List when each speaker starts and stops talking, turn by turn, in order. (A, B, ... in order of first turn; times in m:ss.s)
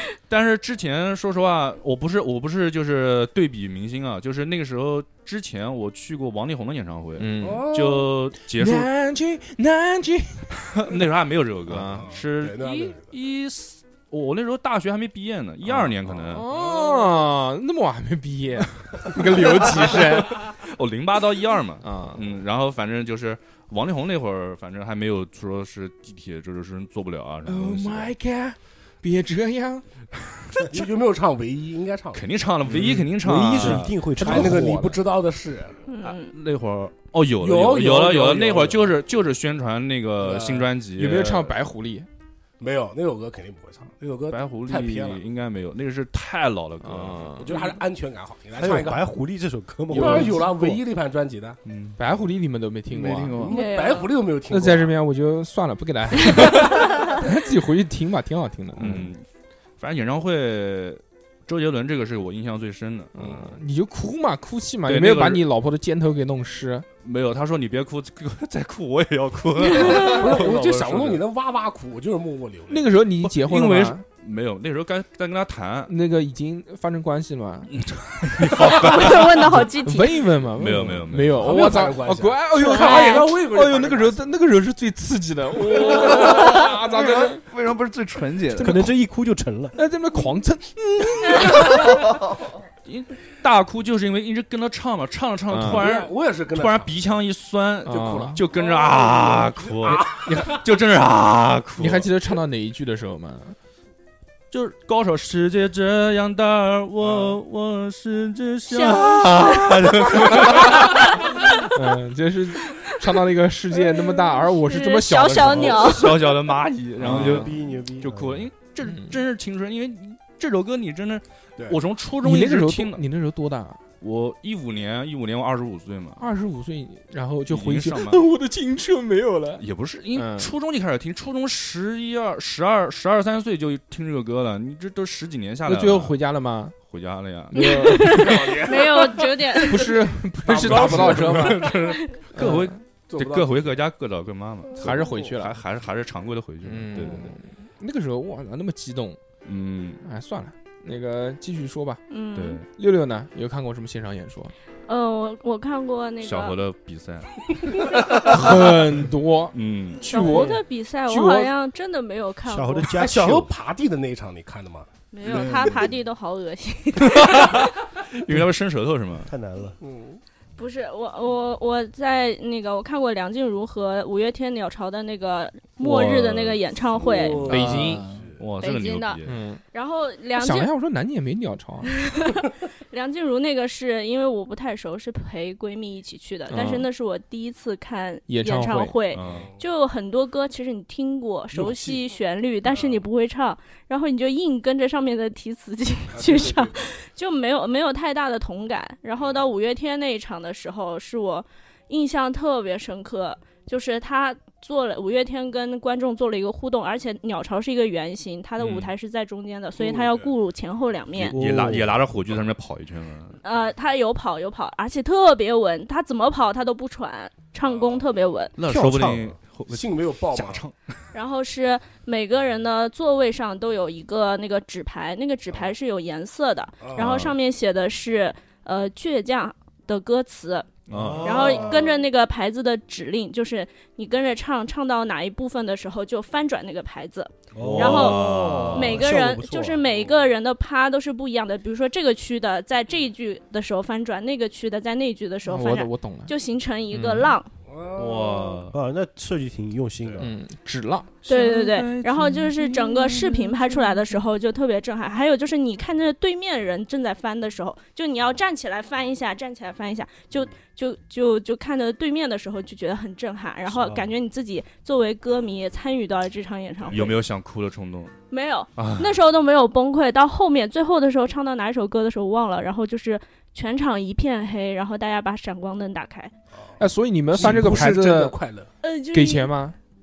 0:00.3-0:08.9 A
0:07.2-0:07.6 B
0:07.4-0:08.1 C
0:08.5-0:10.9 B
0:10.8-0:16.5 A
0:11.7-0:12.1 B
0:11.8-0:13.1 C
0:16.3-0:20.4 B
0:19.4-0:28.1 A
0:21.8-0:22.2 B
0:27.4-0:29.8 B
0:30.6-0:32.3 C
0:32.1-0:34.0 A
0:32.7-0:35.0 B
0:32.8-0:35.0 D
0:34.2-0:35.8 C
0:35.9-0:36.3 E
0:36.0-0:41.5 A
0:37.4-0:38.9 C
0:40.2-0:40.7 C
0:41.0-0:42.1 B
0:42.6-0:45.2 C
0:44.3-0:47.6 A
0:46.8-0:47.5 B
0:47.4-0:49.0 C
0:48.6-0:50.8 D
0:49.9-0:51.6 C
0:49.9-0:50.4 B
0:51.6-0:52.0 A
0:52.0-0:53.5 B
0:52.9-0:53.6 F
0:53.4-0:54.9 C
0:53.5-0:54.1 E
0:54.5-0:59.1 B
0:56.4-0:57.1 E
0:58.8-0:59.2 A
0:59.8-1:03.5 A
1:03.1-1:06.8 B
1:04.9-1:05.4 A
1:07.0-1:11.2 A
1:09.6-1:10.3 E
1:09.8-1:12.9 C
1:12.7-1:14.0 B
1:13.2-1:15.9 A
1:15.9-1:17.7 B
1:17.7-1:19.7 A
1:18.5-1:20.3 E
1:19.5-1:27.5 B
1:20.6-1:21.6 A
1:21.3-1:24.2 C
1:22.6-1:23.3 E
1:25.7-1:26.2 C
1:26.0-1:28.8 F
1:28.6-1:28.9 B
1:28.6-1:29.8 D
1:29.7-1:32.0 B
1:31.9-1:32.2 F
1:32.8-1:42.1 A
1:35.5-1:35.8 B
1:35.6-1:37.0 C
1:37.8-1:38.4 B
1:37.9-1:40.6 C
1:40.0-1:40.6 B
1:41.8-1:43.6 B
1:44.5-1:51.3 A
1:47.0-1:47.3 C
1:48.7-1:51.8 E
1:51.7-1:56.0 B
1:52.7-1:52.9 E
1:53.8-1:56.3 E
1:55.6-2:03.0 A
1:57.0-1:57.5 B
1:57.0-1:58.5 D
1:58.8-1:59.2 B
2:02.2-2:03.8 B
2:04.0-2:06.2 A
2:06.2-2:09.6 B
2:07.5-2:08.3 A
2:09.6-2:16.1 A
2:10.1-2:10.5 B
2:15.6-2:16.8 B
2:16.8-2:17.6 A
2:17.5-2:18.6 B
2:17.5-2:20.0 E
2:18.0-2:19.9 C
2:19.6-2:21.8 B
2:20.4-2:22.0 C
2:20.6-2:21.3 A
2:21.8-2:22.2 E
2:22.3-2:22.8 B
2:22.3-2:27.3 A
2:23.1-2:23.8 C
2:24.8-2:25.6 B
2:26.6-2:29.2 B
2:29.4-2:30.0 A
2:30.0-2:32.0 B
2:32.1-2:32.6 E
2:32.3-2:32.6 A
2:32.7-2:34.5 B
2:34.9-2:36.6 E
2:36.2-2:38.8 A
2:38.1-2:41.5 B
2:39.5-2:40.5 A
2:40.0-2:42.9 E
2:42.5-2:43.5 D
2:42.9-2:45.9 C
2:45.1-2:47.7 E
2:47.0-2:49.3 A
2:49.2-2:49.8 D
2:49.8-2:50.2 C
2:50.6-2:57.6 E
2:55.8-2:56.6 A
2:57.0-2:58.3 C
2:57.4-2:59.4 A
2:57.5-2:58.0 B
2:57.8-2:58.2 F
2:58.6-3:00.7 E
2:59.2-2:59.6 B
3:00.4-3:01.9 B
3:01.8-3:31.4 E
3:06.5-3:06.9 B
3:08.3-3:09.0 B
3:09.1-3:09.5 A
3:09.3-3:09.6 C
3:11.5-3:12.0 C
3:12.7-3:13.0 C
3:16.1-3:16.9 C
3:28.6-3:28.9 A
3:29.8-3:30.3 C
3:31.2-3:33.4 A
3:31.3-3:32.0 D
3:33.4-3:38.5 E
3:37.6-3:38.1 C
3:38.6-3:40.8 A
3:38.6-3:39.4 D
3:39.7-3:40.6 C
3:41.1-4:07.5 E
3:46.8-3:47.2 C
3:47.0-3:47.3 A
3:50.9-3:51.6 A
3:50.9-3:51.9 D
3:51.5-3:51.9 C
3:57.5-3:59.8 D
3:57.6-3:59.1 A
3:59.9-4:00.2 C
4:05.4-4:06.3 B
4:06.9-4:07.3 A
4:07.7-4:08.6 C
4:07.9-4:08.8 A
4:08.7-4:10.3 D
4:10.2-4:11.1 B
4:11.2-4:13.5 A
4:11.2-4:27.1 E
4:23.7-4:24.1 D
4:26.9-4:28.1 A
4:28.3-4:36.3 E
4:28.8-4:29.2 A
4:36.8-4:38.4 B
4:37.3-4:38.7 C
4:37.4-4:37.8 A
4:38.8-4:39.6 E
4:39.1-4:39.7 B